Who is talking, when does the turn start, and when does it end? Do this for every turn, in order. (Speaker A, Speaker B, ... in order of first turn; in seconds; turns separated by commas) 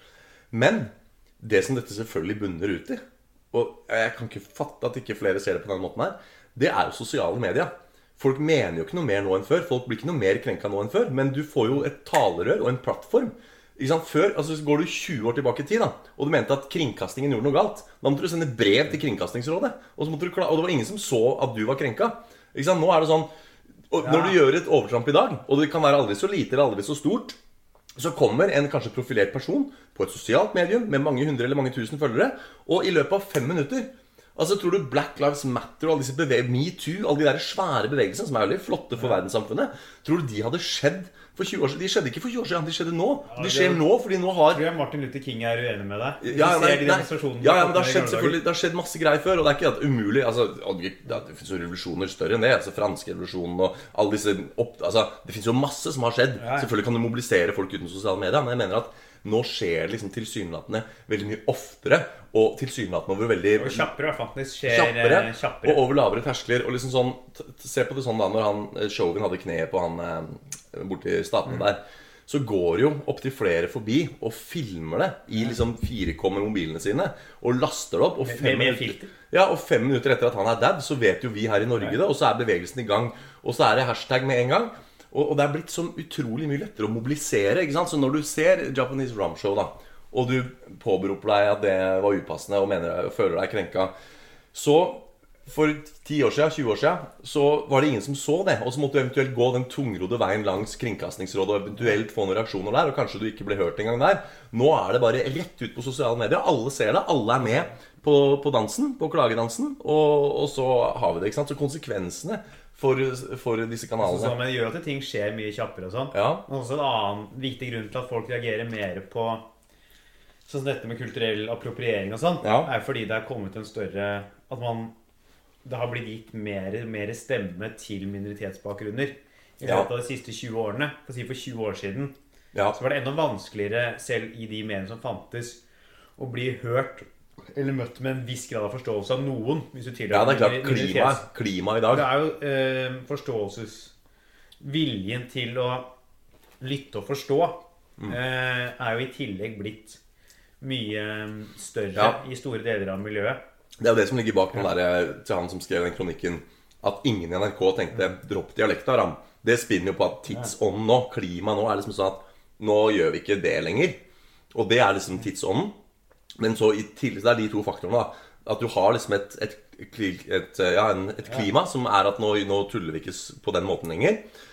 Speaker A: 0.5-23.3, Speaker A: 23.9-27.4, Speaker B: 24.0-24.4, Speaker A: 27.9-44.6, Speaker B: 43.2-43.9, Speaker B: 44.5-48.4, Speaker A: 46.2-63.9, Speaker B: 56.4-56.7, Speaker B: 63.5-65.8, Speaker A: 64.7-93.9, Speaker B: 78.2-79.1, Speaker A: 94.5-114.3, Speaker B: 114.0-119.4, Speaker A: 116.1-116.4, Speaker B: 120.5-124.9, Speaker A: 122.4-122.7, Speaker B: 125.6-132.1, Speaker A: 129.6-129.9, Speaker B: 132.7-135.6, Speaker B: 136.2-141.2, Speaker A: 140.1-142.1, Speaker B: 141.9-143.9, Speaker B: 144.6-145.9, Speaker B: 146.6-150.0, Speaker B: 150.6-153.4, Speaker A: 153.8-164.0, Speaker A: 164.5-165.7, Speaker A: 166.3-174.2